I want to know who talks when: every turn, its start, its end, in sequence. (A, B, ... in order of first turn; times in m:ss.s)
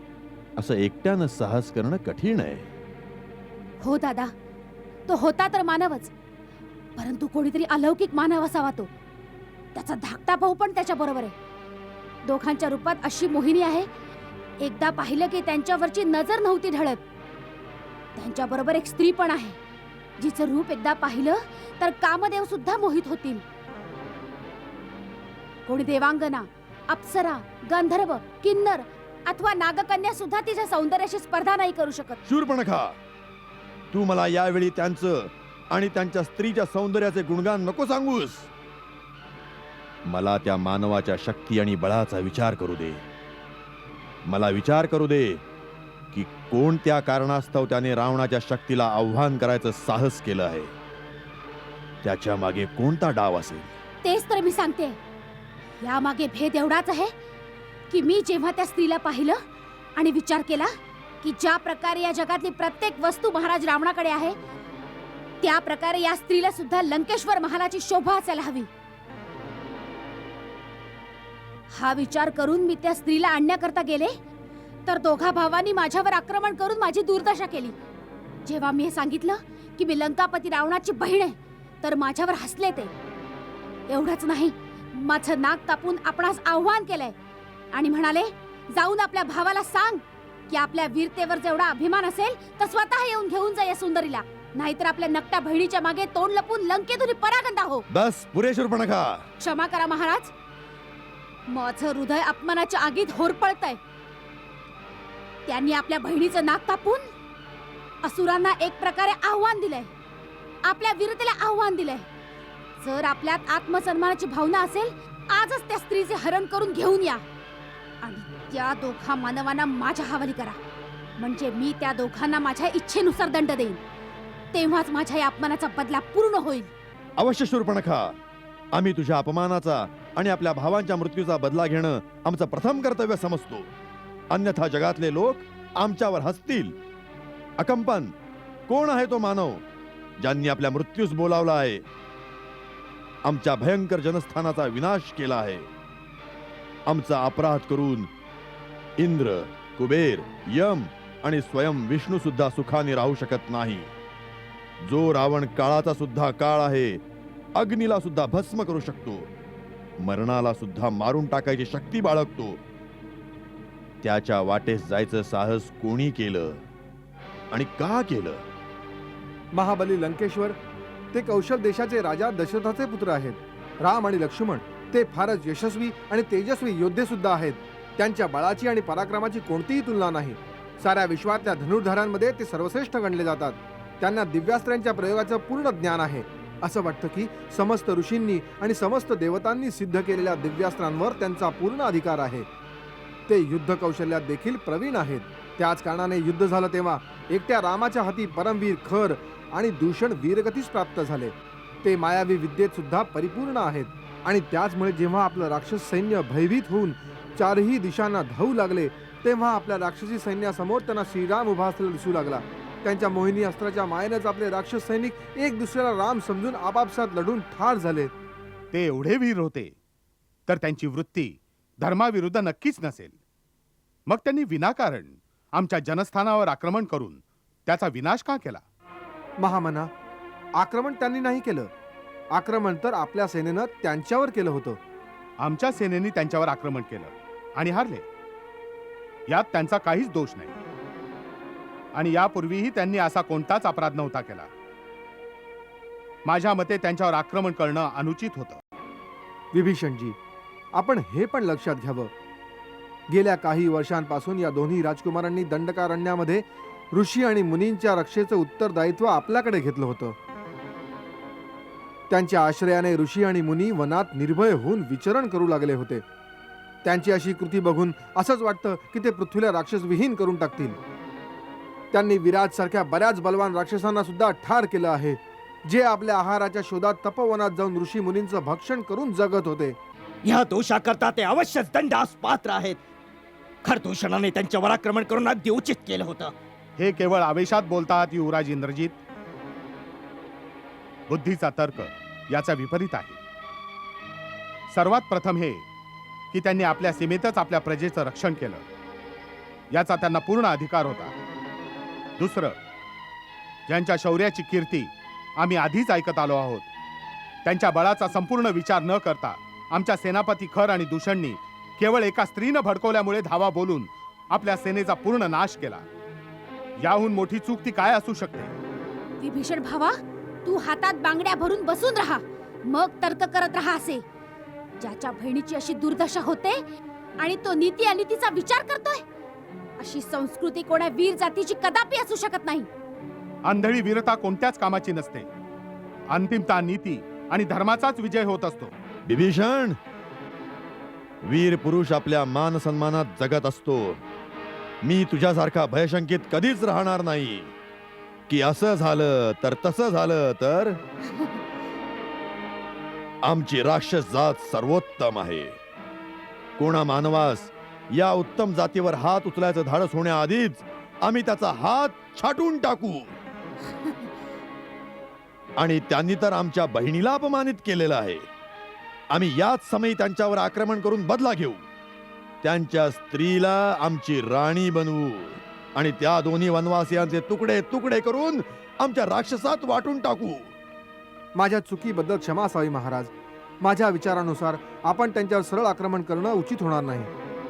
0:00.6-0:02.7 A
0:03.8-0:04.3 B
0:05.1-0:06.1 B
0:07.0-0:08.9 B
0:09.7-0:11.3 B
0:12.2-0:13.9 B
0:14.6-0:17.0 B
0:18.2-0:19.6 B
0:20.2-0:23.4 B
0:25.6-0:32.2 B
0:32.2-0:33.0 A
0:33.9-0:38.5 A
0:40.1-0:43.0 A
0:44.2-0:45.4 A
0:46.1-0:50.7 A
0:52.0-0:53.7 A
0:54.0-0:55.0 B
0:55.8-0:57.1 B
0:57.9-0:59.4 B
1:00.0-1:00.7 B
1:01.2-1:04.4 B
1:05.4-1:08.7 B
1:11.7-1:14.1 B
1:14.8-1:17.8 B
1:18.4-1:22.9 B
1:23.9-1:27.1 B
1:27.7-1:37.8 B
1:37.9-1:39.2 A
1:39.4-1:40.3 B
1:41.5-1:43.8 B
1:45.4-1:47.0 B
1:48.0-1:49.9 B
1:50.6-1:52.1 B
1:52.8-1:57.2 B
1:58.0-2:00.6 B
2:01.2-2:03.8 B
2:04.5-2:06.7 B
2:07.2-2:08.2 A
2:08.7-2:13.7 A
2:14.3-2:16.8 A
2:17.6-2:18.1 A
2:18.7-2:19.6 A
2:20.2-2:21.8 A
2:23.2-2:25.7 A
2:26.9-2:28.1 A
2:29.0-2:33.9 A
2:34.8-2:37.0 A
2:37.6-2:39.3 A
2:40.0-2:42.6 A
2:44.0-2:46.6 A
2:47.5-2:48.4 A
2:49.5-2:50.6 C
2:51.1-3:12.5 C
3:13.3-3:38.1 C
3:38.7-3:39.7 D
3:40.5-3:43.2 D
3:44.1-3:48.6 D
3:49.4-3:49.9 C
3:50.6-3:51.7 C
3:52.3-3:54.8 C
3:55.4-3:58.0 D
3:59.3-4:00.6 D
4:01.9-4:04.5 D
4:06.2-4:08.6 D
4:09.5-4:10.2 C
4:10.7-4:12.1 C
4:13.1-4:20.1 C
4:22.1-4:26.0 C
4:26.8-4:30.8 C
4:31.9-4:39.8 C
4:40.2-4:42.8 E
4:43.6-4:46.3 E
4:46.8-4:49.0 D
4:51.1-4:53.2 D
4:54.7-4:55.6 D
4:56.3-4:58.6 D
4:59.7-5:01.1 D
5:02.2-5:02.6 D
5:03.7-5:06.7 D
5:07.4-5:15.8 D
5:16.8-5:18.5 D
5:19.2-5:24.0 B
5:24.8-5:26.6 B
5:27.2-5:29.0 B
5:29.8-5:32.7 B
5:33.4-5:35.3 D
5:36.1-5:38.7 D
5:39.0-5:39.8 A
5:41.2-5:44.0 A
5:44.8-5:47.5 A
5:48.3-5:50.8 A
5:53.2-5:55.6 A
5:56.6-6:03.1 A
6:05.6-6:08.2 A
6:09.1-6:11.6 A
6:12.4-6:20.5 A
6:21.3-6:23.1 C
6:23.6-6:27.1 C